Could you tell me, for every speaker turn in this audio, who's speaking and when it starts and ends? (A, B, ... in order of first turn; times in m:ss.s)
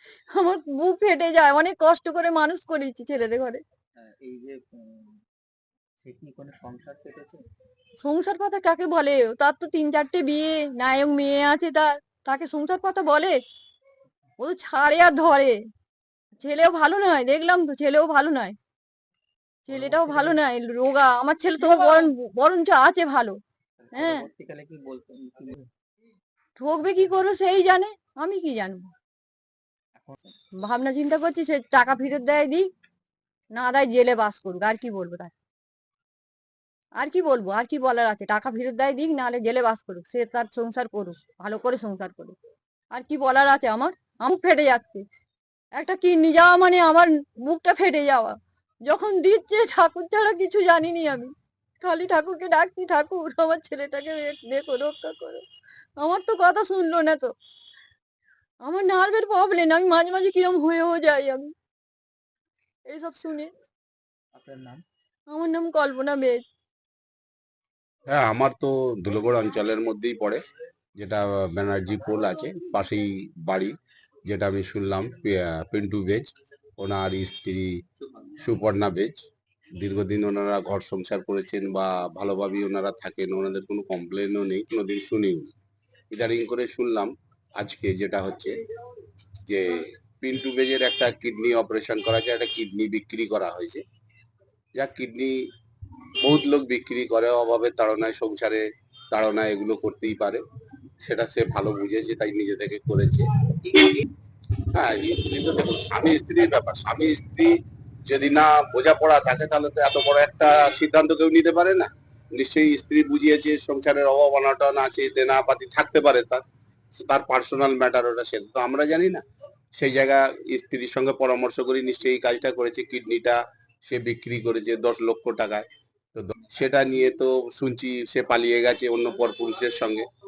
0:00.3-0:03.6 A
0:04.0-0:05.2 B
0:06.0-0:07.4 B
0:08.0-0:13.3 A
0:14.4-0:15.5 A
0:16.4-0:18.5 A
0:19.7-0:23.4 A
0:19.7-0:20.4 B
0:23.8-0:25.7 B
0:23.9-0:24.2 A
0:26.6-0:28.9 A
0:30.0-0:30.3 B
0:30.6-0:32.6 A
0:33.6-0:35.3 A
0:37.0-0:42.3 A
0:42.9-0:45.0 A
0:45.8-0:48.3 A
0:48.9-0:55.4 A
0:56.0-0:57.3 A
0:58.6-1:01.5 A
1:02.9-1:03.5 A
1:04.3-1:04.8 B
1:05.3-1:06.4 A
1:08.1-1:10.4 C
1:11.0-1:13.7 C
1:14.2-1:17.7 C
1:18.4-1:19.2 C
1:19.8-1:25.5 C
1:26.1-1:28.5 C
1:29.4-1:33.8 C
1:34.8-1:35.4 C
1:36.2-1:40.4 C
1:41.0-1:43.2 C
1:44.7-1:47.5 C
1:48.1-1:56.4 C
1:57.0-1:59.2 C
1:59.8-2:10.0 C